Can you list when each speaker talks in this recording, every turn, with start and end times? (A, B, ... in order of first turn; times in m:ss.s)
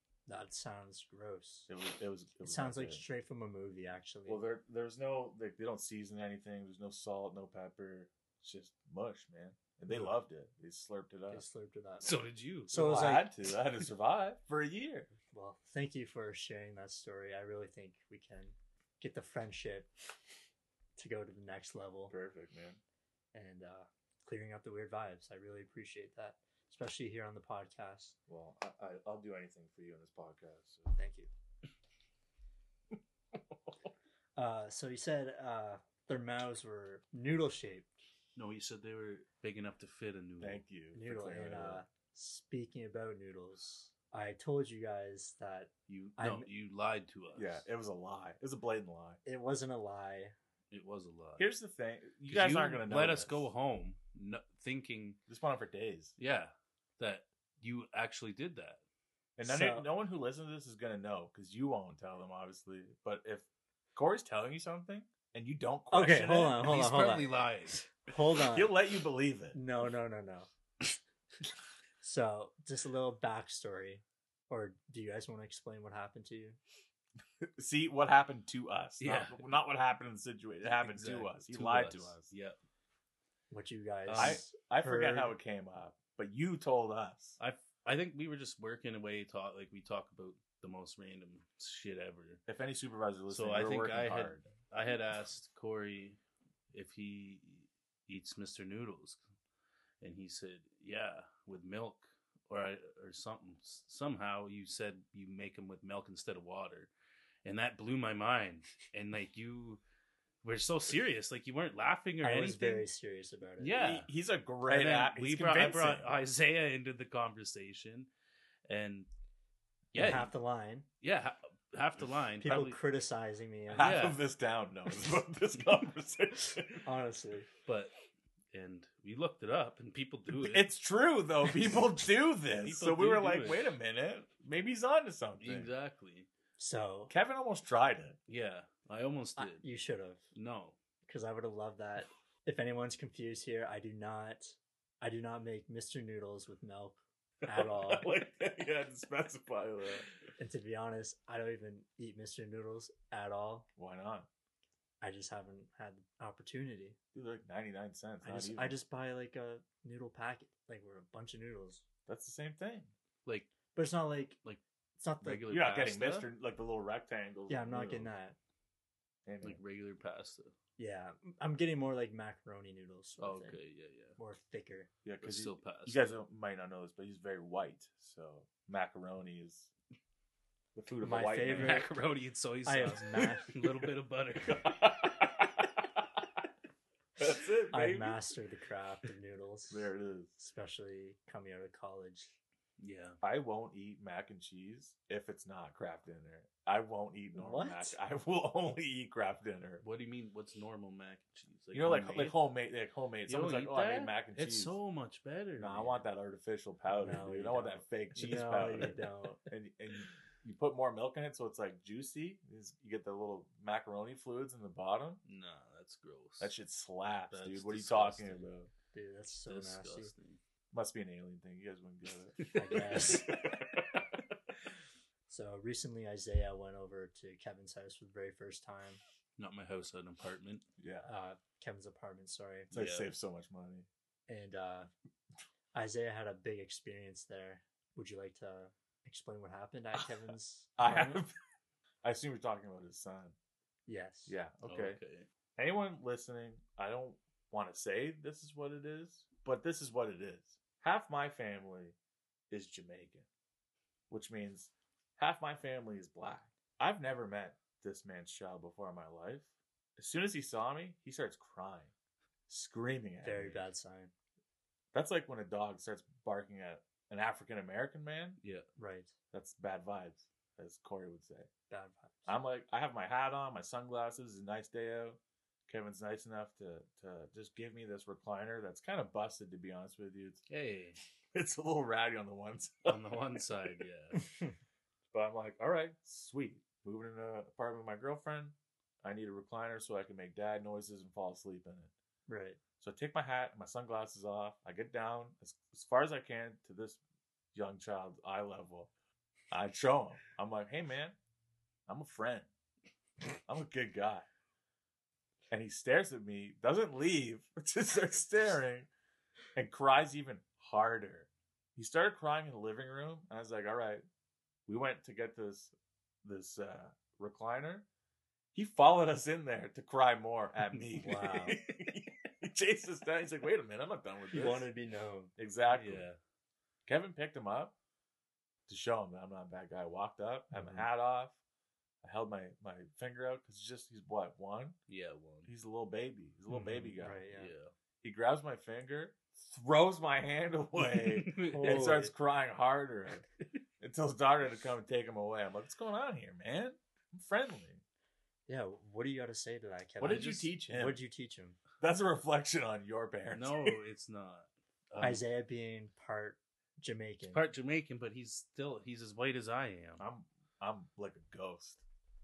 0:00.3-0:01.7 A
0:01.7-0:03.0 B
0:02.4-0:04.4 A
0:04.2-0:11.4 B
0:11.3-0:12.1 A
0:12.0-0:12.7 C
0:12.7-0:13.3 A
0:12.7-0:15.1 B
0:15.3-0:19.9 A
0:21.0-0:22.1 A
0:22.1-0:22.8 B
0:23.3-0:28.2 A
0:28.3-0:30.9 B
0:30.9-0:31.3 A
0:34.4-0:37.9 A
0:38.4-0:40.6 C
0:40.4-0:41.8 B
0:40.9-0:46.5 A
0:45.9-0:47.6 C
0:47.3-0:49.2 B
0:49.2-0:50.3 A
0:50.7-0:51.5 C
0:51.4-0:53.5 B
0:52.3-0:55.2 C
0:55.3-0:56.1 B
0:56.2-0:58.8 C
0:59.4-1:06.8 B
0:59.4-0:59.9 A
1:05.9-1:07.3 A
1:06.6-1:07.9 C
1:07.9-1:08.7 A
1:08.5-1:09.6 B
1:09.5-1:10.5 A
1:12.0-1:16.6 A
1:17.4-1:22.3 B
1:19.0-1:19.5 C
1:20.7-1:22.6 C
1:23.5-1:25.3 A
1:24.1-1:24.4 C
1:24.2-1:27.4 B
1:27.4-1:32.4 C
1:32.5-1:34.5 B
1:33.3-1:36.2 C
1:36.7-1:39.2 C
1:40.0-1:46.9 C
1:47.4-1:49.8 C
1:50.4-1:52.9 C
1:52.2-1:53.7 A
1:53.6-1:54.1 C
1:53.7-1:56.2 B
1:54.6-1:58.1 C
1:58.7-1:59.1 C
1:59.9-2:00.3 C
1:59.9-2:00.9 A
2:01.0-2:02.8 C
2:02.4-2:04.0 A
2:03.7-2:06.8 B
2:03.8-2:04.2 C
2:06.8-2:07.5 A
2:07.6-2:07.9 C
2:08.5-2:10.7 C
2:10.3-2:15.7 B
2:12.6-2:13.7 C
2:15.4-2:16.3 C
2:16.6-2:17.1 A
2:17.1-2:18.2 B
2:18.3-2:19.6 C
2:19.4-2:20.2 A
2:20.3-2:20.8 C
2:21.0-2:28.1 A
2:27.4-2:30.0 B
2:30.4-2:33.7 A
2:33.8-2:34.3 B
2:35.0-2:37.0 A
2:37.1-2:38.8 B
2:38.2-2:41.8 A
2:42.1-2:42.9 B
2:43.2-2:43.5 C
2:43.7-2:44.4 A
2:45.0-2:45.5 A
2:45.2-2:46.3 C
2:45.5-2:48.1 B
2:47.5-2:48.4 A
2:49.2-2:49.6 B
2:49.4-2:50.5 C
2:50.8-2:53.6 A
2:53.2-2:54.2 C
2:54.2-2:54.9 A
2:55.0-2:59.7 B
2:55.2-2:56.0 C
3:00.7-3:01.8 B
3:01.0-3:01.9 A
3:01.5-3:05.1 C
3:02.6-3:03.5 A
3:04.5-3:06.0 B
3:07.2-3:08.2 B
3:07.7-3:12.4 A
3:09.7-3:10.3 B
3:12.8-3:13.2 C
3:13.2-3:19.8 B
3:17.3-3:18.0 A
3:19.8-3:22.4 C
3:21.7-3:24.8 B
3:23.3-3:26.1 C
3:25.6-3:35.2 B
3:26.9-3:29.4 A
3:35.2-3:36.5 C
3:36.4-3:38.7 B
3:37.3-3:38.5 C
3:38.9-3:40.1 A
3:39.5-3:40.4 C
3:40.7-3:44.1 B
3:42.4-3:43.4 C
3:42.5-3:43.3 A
3:45.3-3:49.0 A
3:49.4-3:50.6 C
3:50.8-3:51.1 B
3:51.0-3:52.7 A
3:52.7-3:53.9 B
3:52.7-3:53.1 C
3:54.3-3:54.9 A
3:55.7-4:01.2 A
4:00.8-4:01.3 B
4:02.0-4:03.4 B
4:03.9-4:04.4 A
4:04.3-4:05.0 B
4:04.6-4:05.3 C
4:05.6-4:11.9 B
4:12.5-4:13.3 B
4:14.1-4:21.9 B
4:22.5-4:23.6 B
4:23.2-4:24.1 A
4:24.9-4:28.4 B
4:28.8-4:29.1 A
4:29.3-4:31.5 B
4:31.7-4:32.3 A
4:32.3-4:40.4 B
4:40.5-4:41.0 C
4:41.3-4:43.0 B
4:42.8-4:44.2 C
4:44.2-4:44.5 A
4:45.1-4:51.9 B
4:52.3-4:52.6 A
4:52.8-4:57.0 B
4:57.5-4:58.9 B
4:59.5-5:01.2 B
5:01.9-5:02.5 B
5:03.5-5:04.3 B
5:05.5-5:08.9 B
5:09.6-5:14.0 B
5:14.7-5:17.8 B
5:18.5-5:24.7 B
5:21.0-5:21.6 A
5:24.3-5:25.3 A
5:25.4-5:26.1 B
5:25.7-5:26.2 C
5:26.8-5:27.7 B
5:28.7-5:31.4 B
5:30.5-5:30.8 A
5:32.0-5:34.8 B
5:34.9-5:35.5 C
5:35.4-5:37.2 B
5:36.5-5:37.5 A
5:36.7-5:37.7 C
5:38.0-5:43.2 B
5:40.8-5:42.0 C
5:41.5-5:42.1 A
5:43.8-5:47.8 B
5:48.5-5:51.6 A
5:50.0-5:51.0 B
5:51.8-5:53.8 B
5:53.3-5:55.2 C
5:55.0-5:57.4 A
5:57.3-6:00.0 C
6:00.0-6:01.8 B